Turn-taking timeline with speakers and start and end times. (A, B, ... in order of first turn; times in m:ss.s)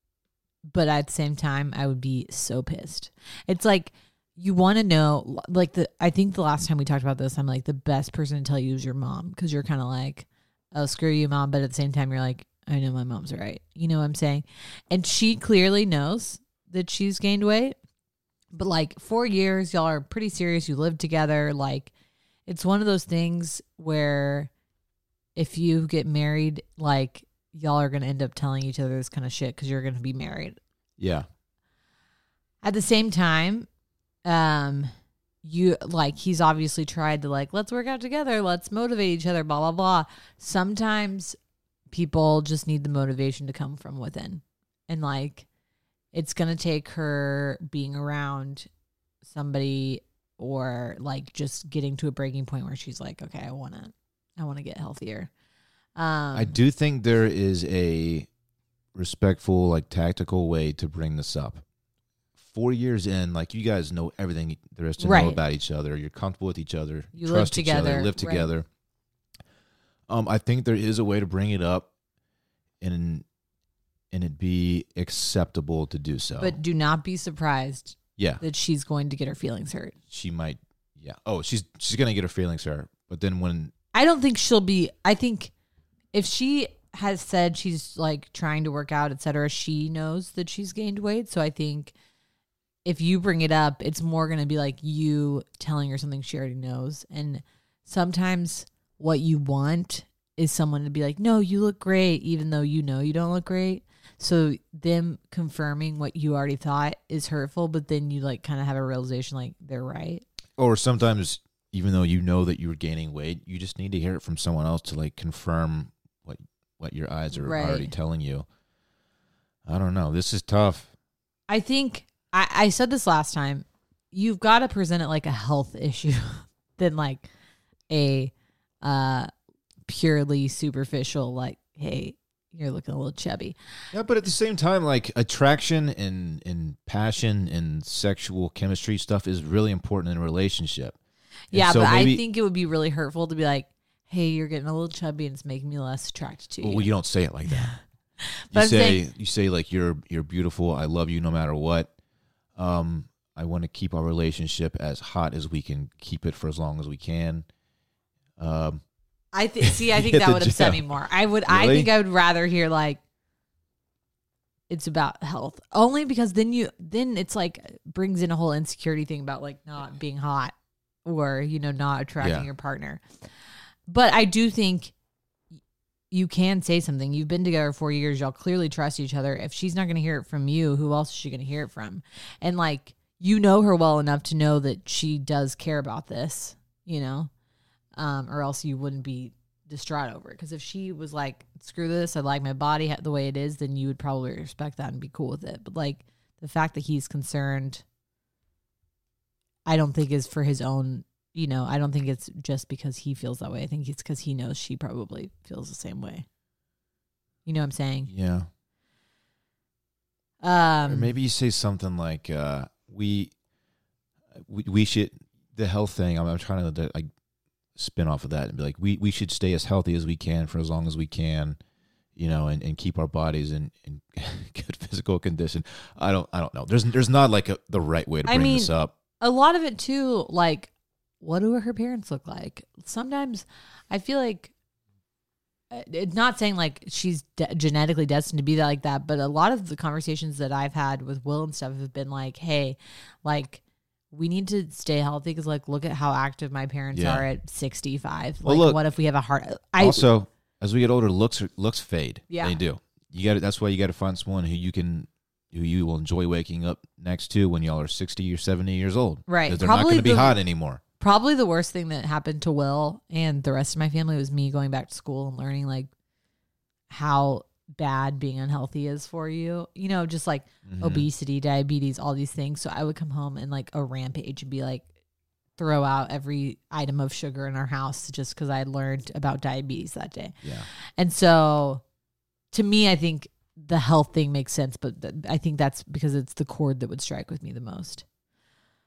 0:00.7-0:17.7 A
0:18.5-0:21.9 A
0:22.4-0:24.5 A
0:25.4-0:30.6 A
0:31.0-0:31.3 B
0:32.6-0:33.7 A
0:34.2-0:34.9 A
0:35.4-0:41.4 A
0:41.9-0:45.5 A
0:46.1-0:48.7 A
0:49.2-0:55.3 A
0:56.0-0:56.6 A
0:56.3-0:58.3 B
0:58.9-1:01.6 B
1:02.4-1:08.6 B
1:05.0-1:05.4 A
1:07.2-1:08.5 A
1:10.1-1:11.9 B
1:12.8-1:13.2 B
1:14.1-1:16.6 B
1:16.4-1:20.0 A
1:18.2-1:18.4 B
1:20.1-1:23.7 B
1:23.9-1:25.5 A
1:26.1-1:31.9 A
1:32.8-1:50.2 A
1:50.6-1:58.4 B
1:57.3-1:57.9 A
1:59.6-2:00.9 B
2:01.5-2:07.3 A
2:07.9-2:09.3 A
2:09.8-2:13.6 A
2:13.9-2:21.0 B
2:21.5-2:22.2 B
2:21.5-2:26.9 A
2:26.6-2:27.7 B
2:27.5-2:29.0 A
2:28.5-2:31.9 B
2:32.6-2:37.4 B
2:38.4-2:38.8 B
2:39.3-2:43.0 A
2:39.6-2:40.8 B
2:41.5-2:41.9 B
2:44.7-2:50.5 A
2:51.0-2:53.0 A
2:52.2-2:52.5 B
2:53.9-2:54.9 A
2:56.1-3:07.3 A
3:08.0-3:17.8 A
3:19.7-3:26.2 A
3:27.4-3:28.1 A
3:28.1-3:28.5 B
3:30.4-3:31.1 A
3:30.8-3:33.3 B
3:34.3-3:37.1 B
3:37.8-3:41.6 B
3:42.2-3:48.9 B
3:48.2-3:54.5 A
3:55.7-4:10.0 A
4:06.9-4:07.3 B
4:08.4-4:08.8 B
4:09.8-4:20.8 B
4:12.3-4:12.6 A
4:19.3-4:20.4 A
4:21.0-4:25.9 A
4:26.9-4:34.9 A
4:30.6-4:31.1 B
4:35.6-4:41.8 A
4:40.4-4:40.7 B
4:42.5-4:48.0 A